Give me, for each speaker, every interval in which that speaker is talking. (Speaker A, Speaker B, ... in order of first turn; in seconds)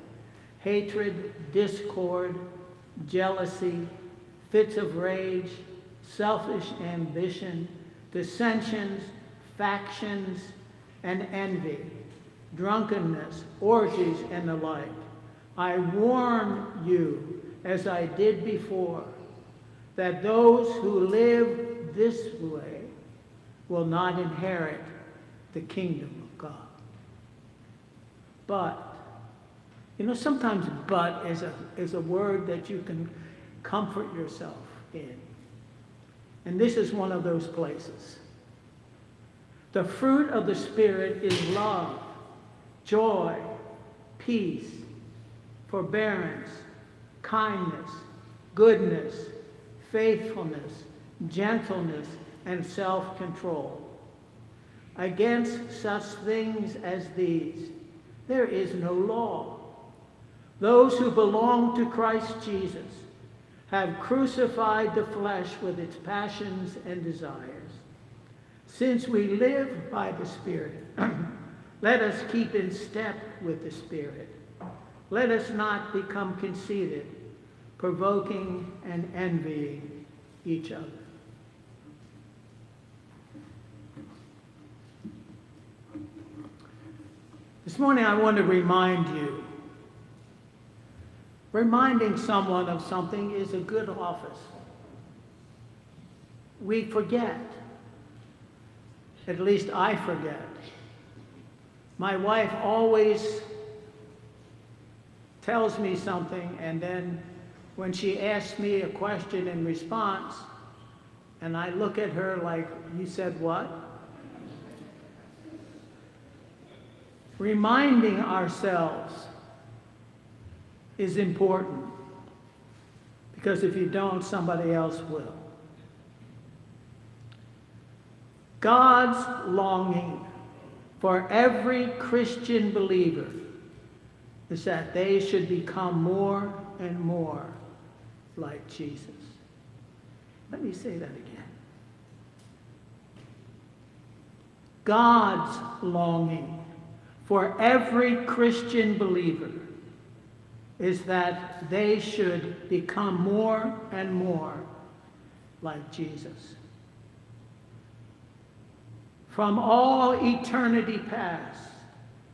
Speaker A: 0.6-2.4, 3.0-3.9, 4.5-11.9, 12.5-15.0, 15.6-19.1, 19.9-22.9, 23.7-24.9, 25.5-26.7, 28.5-29.0, 30.0-33.1, 33.6-35.2, 36.5-38.2, 39.7-42.1, 42.8-43.5, 44.2-44.9, 45.7-46.7, 47.2-53.9, 55.0-57.7, 58.3-59.6, 60.6-63.1, 63.7-67.8, 68.7-74.4, 75.1-77.2, 77.8-81.0, 87.7-89.5, 91.5-94.5, 96.6-97.6, 99.3-100.5, 102.0-103.5, 105.4-107.2, 107.8-110.5, 111.4-113.7, 117.4-119.3, 121.0-121.9, 123.3-125.5, 128.6-130.2, 131.0-133.4, 134.5-137.6, 138.4-139.4, 140.5-141.5, 144.8-146.6, 147.2-149.7, 150.8-154.7, 155.6-156.6, 159.3-161.8